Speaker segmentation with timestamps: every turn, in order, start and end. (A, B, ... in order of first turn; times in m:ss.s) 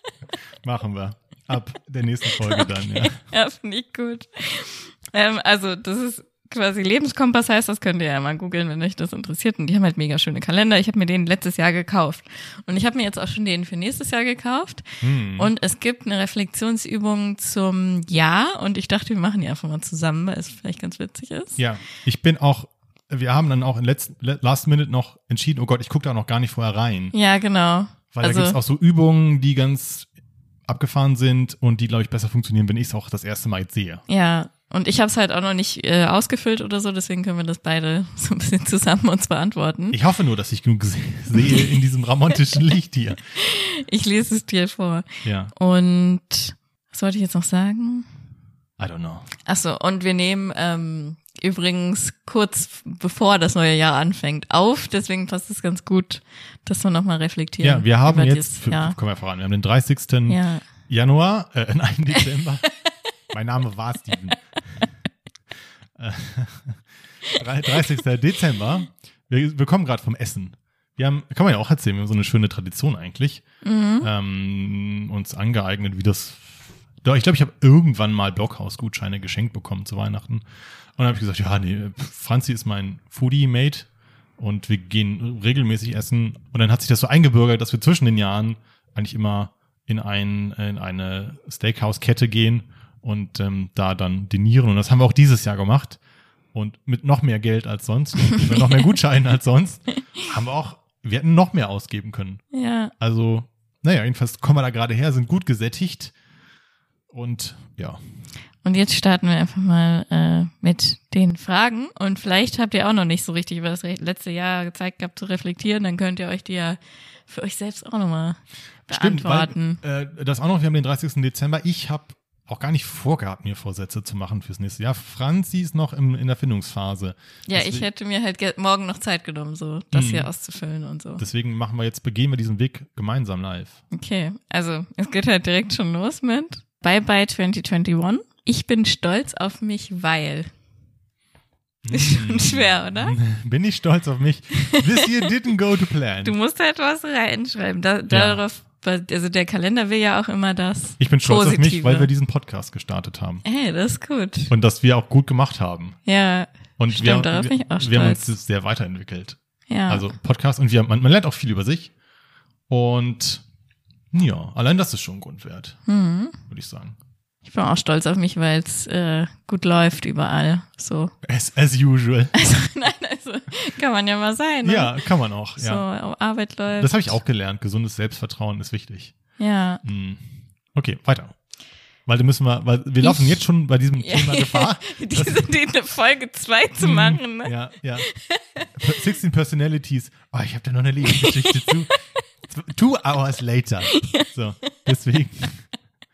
0:00.6-0:03.2 A
0:02.4-0:21.6 B
0:15.0-0:15.5 A
0:21.6-0:27.1 A
0:27.1-0:28.6 B
0:28.1-0:30.1 A
0:30.7-0:34.0 A
0:34.1-0:40.0 B
0:39.9-0:43.2 A
0:43.4-0:48.1 B
0:45.2-0:45.5 A
0:48.8-0:49.3 A
0:49.4-0:58.9 B
0:57.6-1:02.7 A
1:00.3-1:00.6 B
1:03.3-1:04.4 A
1:06.0-1:06.8 A
1:07.3-1:13.4 A
1:13.6-1:14.1 B
1:14.0-1:20.4 A
1:21.0-1:23.9 A
1:24.4-1:36.0 A
1:36.5-1:42.4 A
1:42.5-1:42.9 B
1:43.0-1:46.1 A
1:47.1-1:48.0 A
1:48.6-1:59.8 B
1:58.9-2:07.9 A
2:07.5-2:11.2 B
2:09.9-2:10.3 A
2:11.2-2:13.8 A
2:13.9-2:20.5 B
2:21.8-2:26.4 A
2:21.9-2:23.2 B
2:24.6-2:25.0 B
2:26.2-2:32.1 B
2:28.1-2:28.4 A
2:31.0-2:33.4 A
2:33.4-2:34.5 B
2:34.5-2:36.0 A
2:36.0-2:38.3 B
2:36.8-2:41.9 A
2:39.7-2:40.1 B
2:42.7-2:43.4 A
2:44.1-2:45.8 A
2:45.8-2:46.4 B
2:46.5-2:47.0 A
2:47.4-2:51.1 B
2:51.2-2:52.3 A
2:52.3-2:55.0 B
2:54.6-2:55.8 A
2:55.6-2:57.2 B
2:56.8-2:59.1 A
2:59.4-2:59.8 B
2:59.8-3:01.3 A
3:02.0-3:05.5 A
3:03.0-3:03.4 B
3:04.0-3:08.7 B
3:06.8-3:08.1 A
3:08.7-3:12.0 A
3:11.0-3:12.2 B
3:12.5-3:15.6 A
3:13.8-3:14.8 B